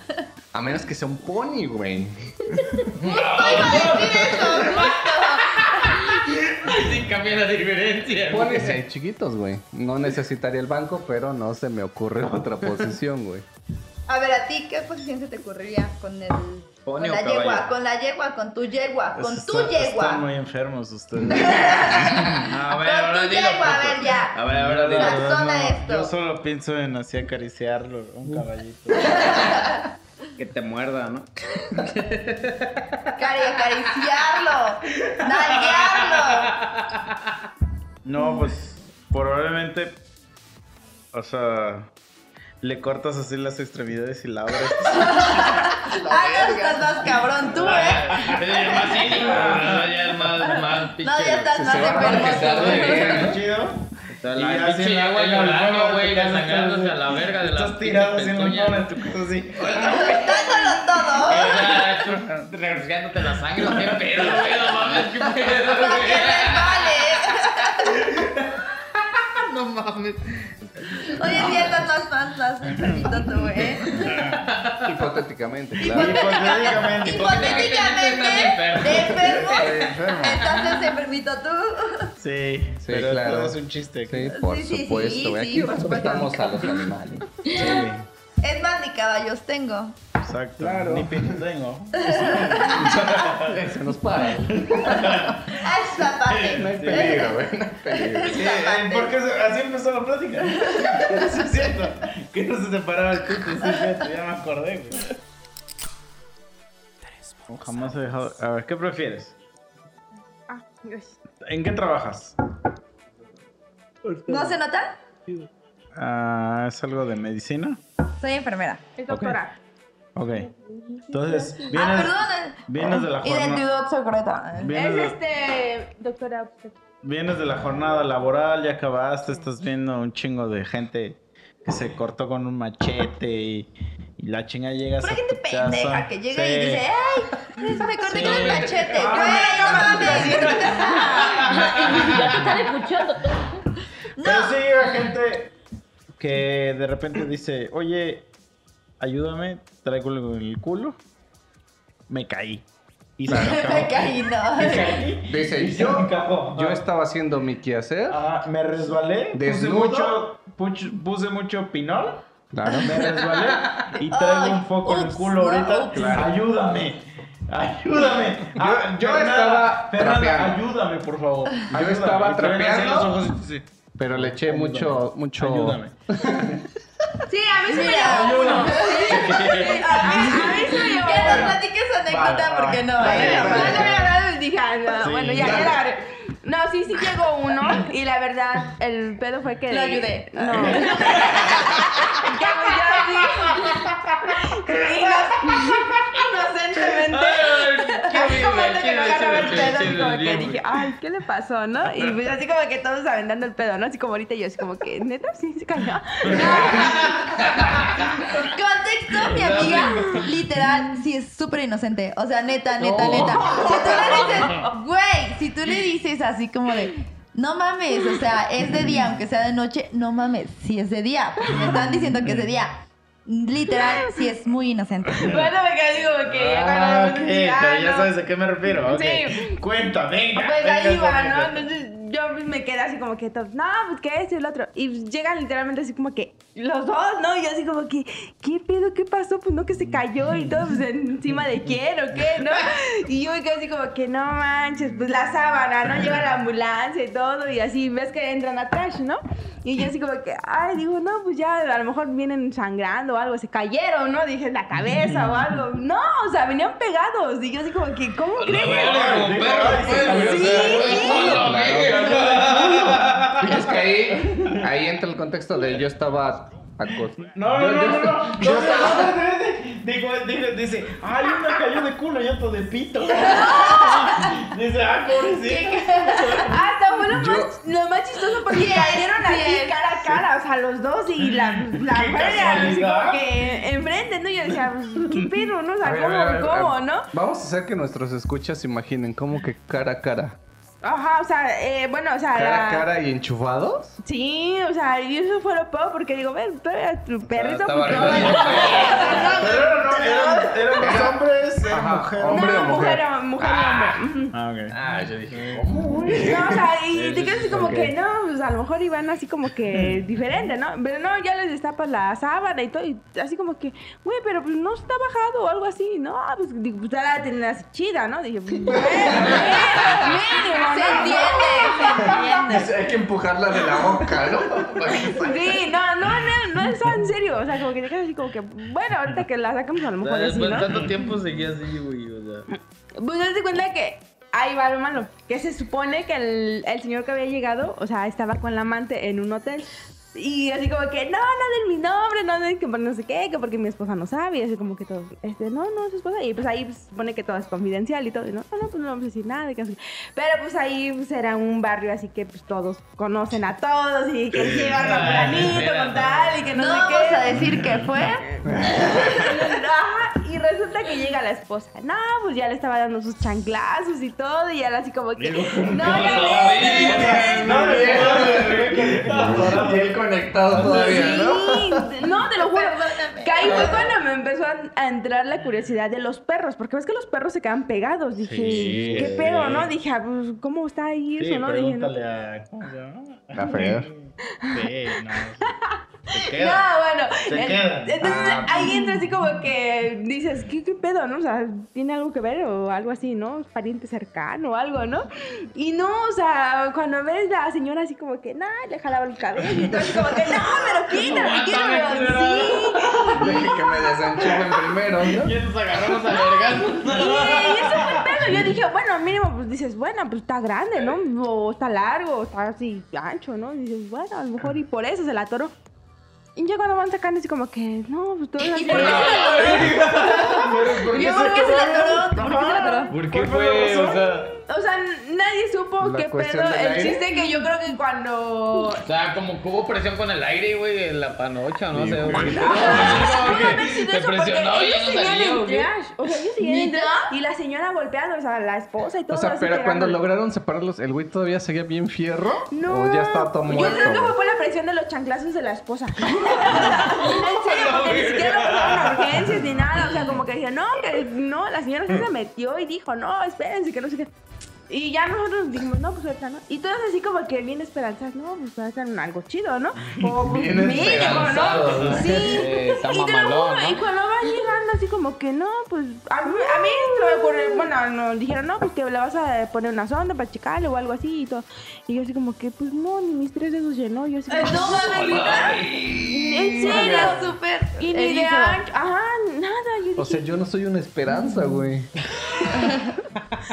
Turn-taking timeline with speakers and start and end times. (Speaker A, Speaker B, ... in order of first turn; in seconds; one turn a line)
Speaker A: 0.5-2.5
Speaker B: 2.6-2.9
Speaker C: 3.0-8.8
Speaker D: 3.0-5.9
Speaker A: 8.3-13.5
Speaker D: 14.1-20.2
Speaker C: 16.9-17.7
Speaker E: 19.1-23.4
Speaker D: 21.3-24.4
Speaker C: 22.5-25.4
Speaker E: 24.4-29.5
Speaker D: 25.0-26.1
Speaker D: 29.0-29.8
Speaker C: 30.4-33.1
Speaker D: 33.2-36.5
Speaker C: 35.0-37.0
Speaker E: 38.0-40.1
Speaker E: 41.1-41.9
Speaker E: 42.6-45.4
Speaker D: 44.9-48.9
Speaker A: 45.4-47.5
Speaker C: 47.5-53.3
Speaker E: 47.7-50.3
Speaker D: 51.0-53.3
Speaker A: 51.5-53.4
Speaker E: 52.1-59.9
Speaker C: 54.1-67.2
Speaker D: 59.8-61.7
Speaker E: 61.9-62.5
Speaker E: 63.7-64.4
Speaker D: 65.7-68.0
Speaker C: 69.1-71.8
Speaker D: 71.1-74.1
Speaker E: 72.7-73.1
Speaker C: 73.8-74.9
Speaker E: 73.9-74.4
Speaker A: 74.8-76.3
Speaker D: 75.8-82.1
Speaker E: 75.8-77.7
Speaker C: 77.1-79.8
Speaker E: 79.4-80.5
Speaker C: 80.4-80.9
Speaker E: 82.2-84.3
Speaker A: 82.8-87.3
Speaker D: 84.3-86.8
Speaker E: 87.5-88.1
Speaker D: 88.4-90.0
Speaker E: 90.2-93.6
Speaker A: 90.6-91.4
Speaker D: 92.0-93.0
Speaker A: 92.1-95.4
Speaker E: 94.5-95.5
Speaker D: 95.5-97.4
Speaker E: 96.3-97.2
Speaker A: 96.5-98.4
Speaker D: 98.0-99.1
Speaker E: 98.3-105.1
Speaker D: 100.7-101.2
Speaker E: 107.5-109.4
Speaker F: 110.5-111.2
Speaker E: 111.5-112.3
Speaker C: 114.1-114.6
Speaker D: 114.3-115.0
Speaker E: 116.0-117.8
Speaker D: 118.2-118.8
Speaker F: 119.0-119.5
Speaker E: 119.1-119.4
Speaker E: 120.2-120.5
Speaker F: 120.5-121.6
Speaker E: 121.1-123.7
Speaker D: 121.7-124.7
Speaker E: 124.6-125.2
Speaker F: 124.7-126.8
Speaker E: 127.0-136.8
Speaker D: 135.0-141.6
Speaker E: 138.0-142.3
Speaker C: 138.2-142.5
Speaker B: 141.5-143.6
Speaker D: 144.2-144.6
Speaker E: 144.2-145.5
Speaker E: 146.2-148.3
Speaker E: 149.0-151.0
Speaker E: 152.1-152.7
Speaker E: 153.2-156.8
Speaker A: 153.3-153.7
Speaker D: 153.3-155.0
Speaker A: 155.2-158.2
Speaker E: 158.1-162.2
Speaker A: 159.3-160.2
Speaker A: 162.5-162.9
Speaker E: 162.8-175.9
Speaker C: 163.2-163.9
Speaker D: 164.1-166.3
Speaker A: 165.9-166.3
Speaker A: 168.5-170.6
Speaker A: 171.7-173.3
Speaker A: 174.0-176.6
Speaker F: 177.3-181.6
Speaker D: 177.6-183.9
Speaker E: 177.9-180.7
Speaker A: 181.2-181.6
Speaker E: 182.1-183.9
Speaker A: 183.0-184.2
Speaker F: 183.2-191.5
Speaker E: 184.9-185.8
Speaker A: 185.4-185.7
Speaker D: 189.7-192.3
Speaker F: 192.2-197.6
Speaker C: 193.6-194.0
Speaker D: 196.1-200.0
Speaker C: 197.0-200.6
Speaker F: 198.4-207.1
Speaker D: 206.3-207.4
Speaker C: 206.4-208.2
Speaker D: 208.3-225.5
Speaker C: 209.2-210.3
Speaker A: 212.9-214.0
Speaker C: 213.0-214.7
Speaker E: 221.6-222.5
Speaker F: 223.7-224.2
Speaker F: 225.2-228.1
Speaker E: 226.2-231.7
Speaker F: 228.8-229.6
Speaker F: 230.3-259.1
Speaker E: 255.2-255.4
Speaker C: 258.4-263.4
Speaker E: 258.6-261.2
Speaker F: 259.8-261.6
Speaker A: 261.0-262.2
Speaker E: 261.8-263.4
Speaker A: 263.4-269.2
Speaker E: 267.3-276.6
Speaker D: 273.2-274.4
Speaker D: 275.4-276.5
Speaker F: 276.4-287.1
Speaker A: 277.1-277.5
Speaker D: 278.5-279.8
Speaker E: 281.6-283.4
Speaker A: 285.8-290.4
Speaker F: 290.8-292.9
Speaker A: 292.3-294.0
Speaker F: 294.0-301.1
Speaker A: 297.3-299.4
Speaker C: 297.9-299.1
Speaker E: 297.9-298.6
Speaker D: 298.8-299.4
Speaker E: 299.1-302.7
Speaker A: 300.8-303.9
Speaker F: 302.3-304.3
Speaker E: 304.3-304.8
Speaker A: 304.7-306.6
Speaker E: 305.3-306.3
Speaker F: 306.2-322.7
Speaker E: 306.9-307.9
Speaker A: 318.7-320.1
Speaker D: 320.6-322.7
Speaker A: 322.5-325.7
Speaker F: 325.0-330.9
Speaker C: 330.0-332.5
Speaker F: 333.0-357.4
Speaker C: 354.4-356.4
Speaker E: 354.8-355.4
Speaker D: 356.5-358.3
Speaker F: 358.2-367.7
Speaker A: 358.5-359.1
Speaker E: 365.2-371.0
Speaker C: 365.7-368.5
Speaker A: 367.5-371.9
Speaker F: 370.5-381.9
Speaker D: 372.4-373.9
Speaker E: 378.2-379.7
Speaker C: 378.4-379.6
Speaker E: 381.2-385.6
Speaker A: 383.3-383.9
Speaker F: 384.4-384.7
Speaker F: 385.5-403.7
Speaker E: 386.1-386.6
Speaker E: 387.2-388.5
Speaker C: 400.8-403.1
Speaker D: 401.8-402.1
Speaker A: 403.1-405.3
Speaker C: 405.1-408.1
Speaker E: 405.7-406.0
Speaker F: 406.8-415.6
Speaker F: 416.4-419.9
Speaker D: 418.4-422.9
Speaker C: 418.7-420.6
Speaker E: 419.6-424.3
Speaker C: 422.9-424.4
Speaker F: 424.5-428.8
Speaker A: 425.8-427.1
Speaker C: 428.8-435.7
Speaker A: 431.7-433.1
Speaker F: 432.5-440.0
Speaker D: 432.7-433.6
Speaker D: 436.4-437.1
Speaker A: 439.1-444.2
Speaker F: 442.5-454.1
Speaker D: 443.5-444.0
Speaker C: 447.3-449.4
Speaker F: 454.7-475.2
Speaker A: 460.1-462.4
Speaker C: 461.1-463.8
Speaker D: 466.2-467.6
Speaker D: 474.3-478.6
Speaker C: 474.8-476.2
Speaker F: 476.1-480.3
Speaker A: 476.6-477.3
Speaker A: 480.0-481.9
Speaker D: 482.5-483.0